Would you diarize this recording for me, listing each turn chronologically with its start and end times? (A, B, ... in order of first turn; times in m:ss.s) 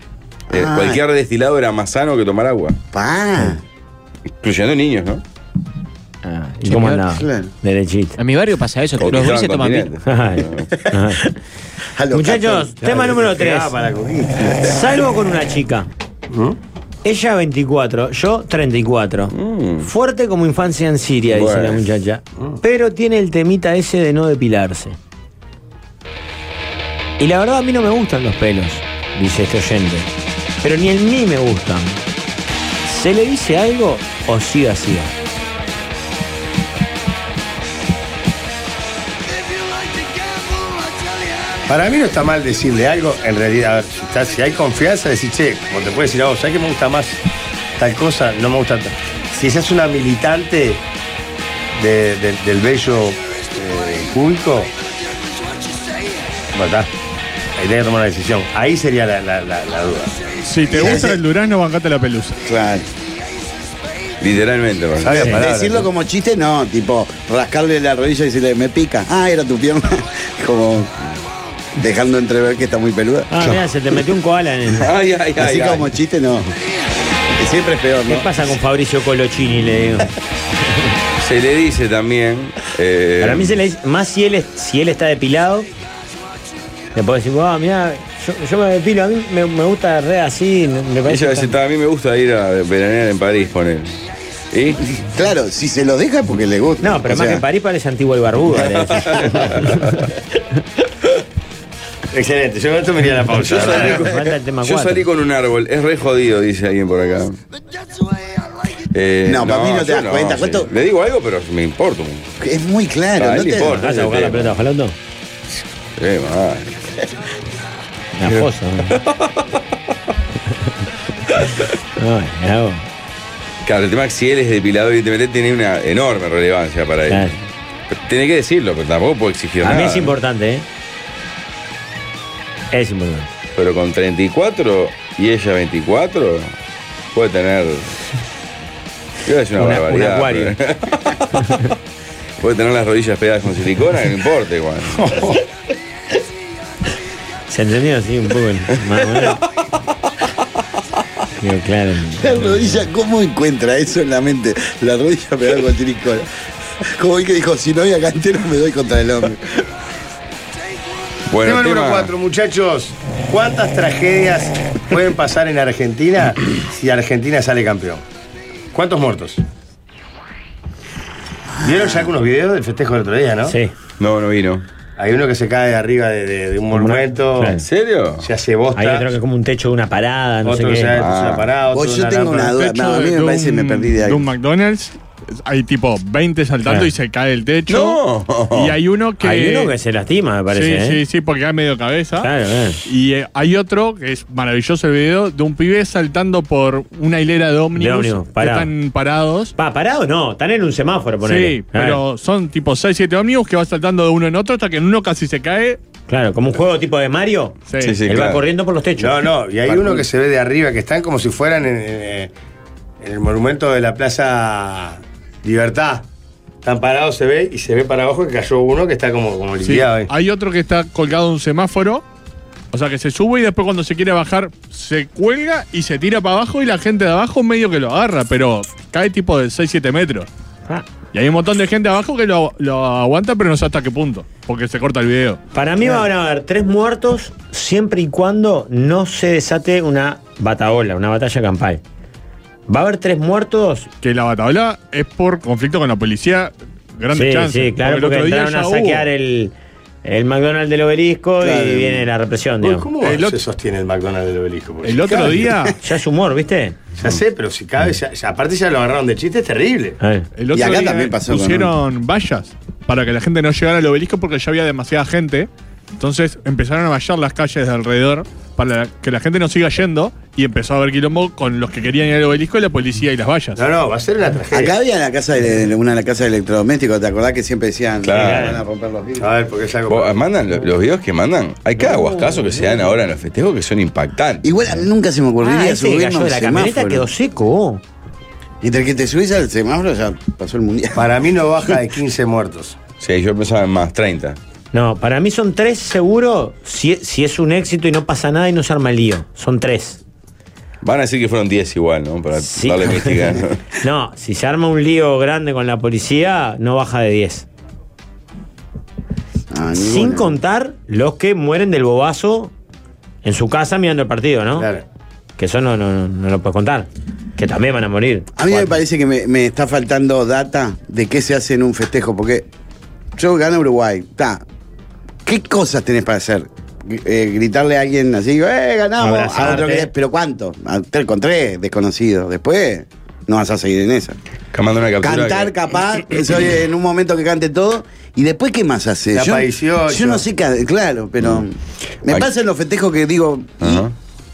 0:00.5-0:01.0 A
0:00.5-0:02.8 B
0:02.9-0:03.6 A
0:04.4-0:05.2 B
0:06.3-0:08.2 C
0:06.6-0:07.1 D
0:07.1-0:07.5 A
0:08.2-0:09.9 D
0:09.0-0:10.7 B
0:10.0-0:11.3 C
0:11.9-0:12.7 A
0:12.1-0:13.7 C
0:12.8-0:14.6 E
0:14.6-0:15.9 C
0:16.3-0:16.6 E
0:17.0-0:25.0 C
0:19.3-0:19.9 B
0:21.3-0:21.8 B
0:27.2-0:30.1 C
0:30.6-0:32.0 C
0:32.8-0:35.1 C
0:41.7-0:47.2 E
0:47.8-0:50.8 E
0:51.7-0:54.7 E
0:56.5-0:56.9 E
0:57.6-1:00.1 E
1:00.5-1:02.4 F
1:00.7-1:01.2 A
1:02.4-1:02.9 A
1:04.2-1:05.3 B
1:05.0-1:05.9 E
1:05.1-1:05.4 C
1:05.2-1:10.9 A
1:11.8-1:13.3 A
1:13.3-1:14.9 C
1:14.7-1:15.9 B
1:15.4-1:16.5 A
1:17.3-1:18.3 A
1:18.1-1:20.1 C
1:21.2-1:23.6 B
1:23.2-1:25.7 C
1:26.9-1:31.5 C
1:31.0-1:34.8 B
1:35.0-1:37.4 A
1:36.8-1:40.0 C
1:38.6-1:40.0 B
1:42.1-1:44.0 E
1:43.4-1:47.4 B
1:43.5-1:45.0 C
1:48.9-1:52.3 B
1:49.2-1:50.7 A
1:52.4-1:53.8 A
1:53.2-1:54.6 B
1:53.6-1:55.0 C
1:56.0-1:56.8 B
1:58.2-1:59.0 C
1:58.9-1:59.3 B
2:02.0-2:02.8 C
2:03.6-2:07.4 B
2:07.1-2:07.4 C
2:07.9-2:10.1 B
2:09.6-2:10.6 C
2:12.7-2:13.3 C
2:13.5-2:16.5 B
2:17.1-2:17.9 B
2:19.2-2:21.2 B
2:19.5-2:20.6 C
2:21.4-2:21.6 C
2:22.4-2:25.4 B
2:27.5-2:29.4 C
2:31.4-2:32.5 C
2:32.2-2:36.3 A
2:36.8-2:39.5 A
2:41.3-2:42.1 B
2:41.4-2:48.0 E
2:48.7-2:49.4 E
2:51.6-2:53.6 E
2:51.6-2:52.0 A
2:53.5-2:53.7 C
2:54.0-2:54.6 B
2:55.0-2:57.6 E
2:56.7-2:57.6 C
2:57.6-2:58.3 B
2:58.2-2:59.1 E
2:58.7-3:01.0 C
3:00.4-3:02.6 E
3:00.9-3:01.5 B
3:01.7-3:04.3 A
3:02.6-3:08.0 F
3:07.7-3:08.8 B
3:08.5-3:09.7 F
3:09.2-3:11.0 C
3:10.5-3:12.3 F
3:12.2-3:12.8 C
3:12.8-3:19.5 F
3:17.8-3:18.7 C
3:19.6-3:22.0 C
3:21.2-3:25.8 F
3:26.1-3:30.0 C
3:27.7-3:28.0 F
3:27.8-3:28.4 B
3:29.0-3:32.3 E
3:33.0-3:36.0 E
3:36.6-3:40.1 E
3:39.6-3:42.0 F
3:42.7-3:50.3 F
3:51.1-3:55.4 F
3:55.5-4:01.8 C
4:02.7-4:03.9 C
4:04.0-4:09.0 F
4:07.1-4:09.5 C
4:10.0-4:12.9 C
4:11.4-4:12.1 A
4:12.6-4:15.5 E
4:13.0-4:13.4 F
4:14.8-4:15.8 F
4:15.8-4:16.8 C
4:17.0-4:20.0 E
4:20.0-4:20.3 C
4:20.4-4:33.6 F
4:20.5-4:21.7 A
4:33.5-4:34.7 E
4:34.5-4:39.3 A
4:38.0-4:38.6 B
4:38.1-4:38.6 C
4:39.2-4:40.2 E
4:39.9-4:44.5 B
4:41.8-4:42.6 C
4:44.4-4:47.1 A
4:45.4-4:47.8 C
4:48.6-4:51.1 A
4:51.0-4:52.8 E
4:53.0-4:54.4 B
4:54.7-5:00.0 C
5:00.8-5:03.6 B
5:02.4-5:07.5 C
5:09.5-5:10.4 A
5:09.7-5:12.5 C
5:13.2-5:14.7 C
5:14.6-5:14.8 E
5:15.4-5:18.7 C
5:18.4-5:22.4 A
5:23.2-5:24.4 A
5:25.2-5:34.2 A
5:29.0-5:29.9 E
5:34.5-5:35.5 B
5:35.0-5:43.8 A
5:39.1-5:40.2 E
5:43.6-5:43.9 B